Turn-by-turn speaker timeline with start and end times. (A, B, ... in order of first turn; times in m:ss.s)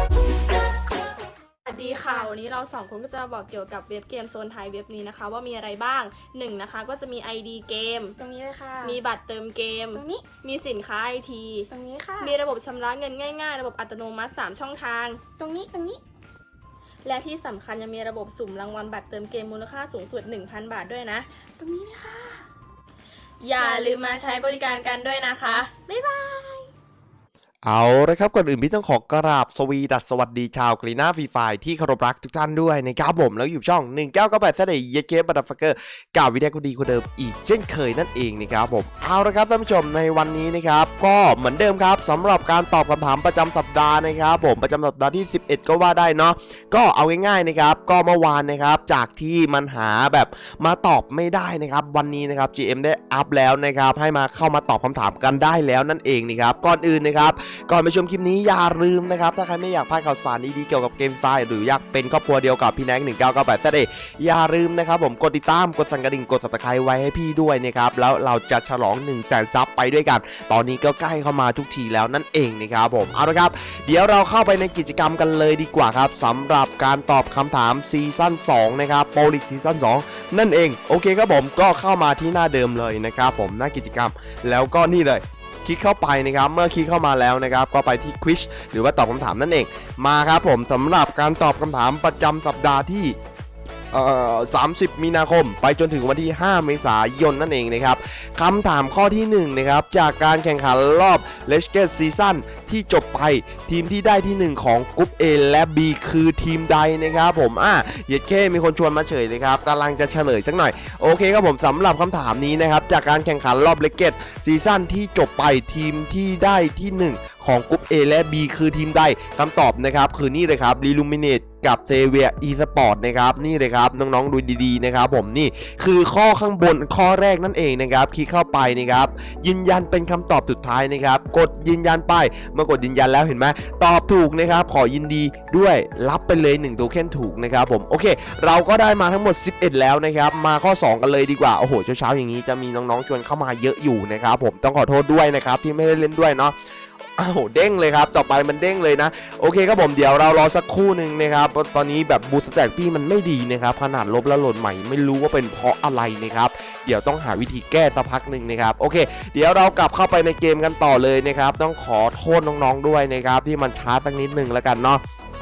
0:01.6-0:02.3 A
0:01.7-0:08.2 B
0:08.2-0:09.0 A
0:08.8-0:11.7 B
0:09.9-0:10.3 A
0:11.7-0:12.3 A
0:12.2-0:15.2 B
0:15.4-0:16.0 A
0:17.0-0:21.3 B
0:21.6-0:22.4 A
0:23.4-0:25.7 B
0:23.6-0:24.0 A
0:25.8-0:26.6 A
0:27.6-1:33.1 C
1:33.9-2:26.5 C
2:27.2-2:45.0 C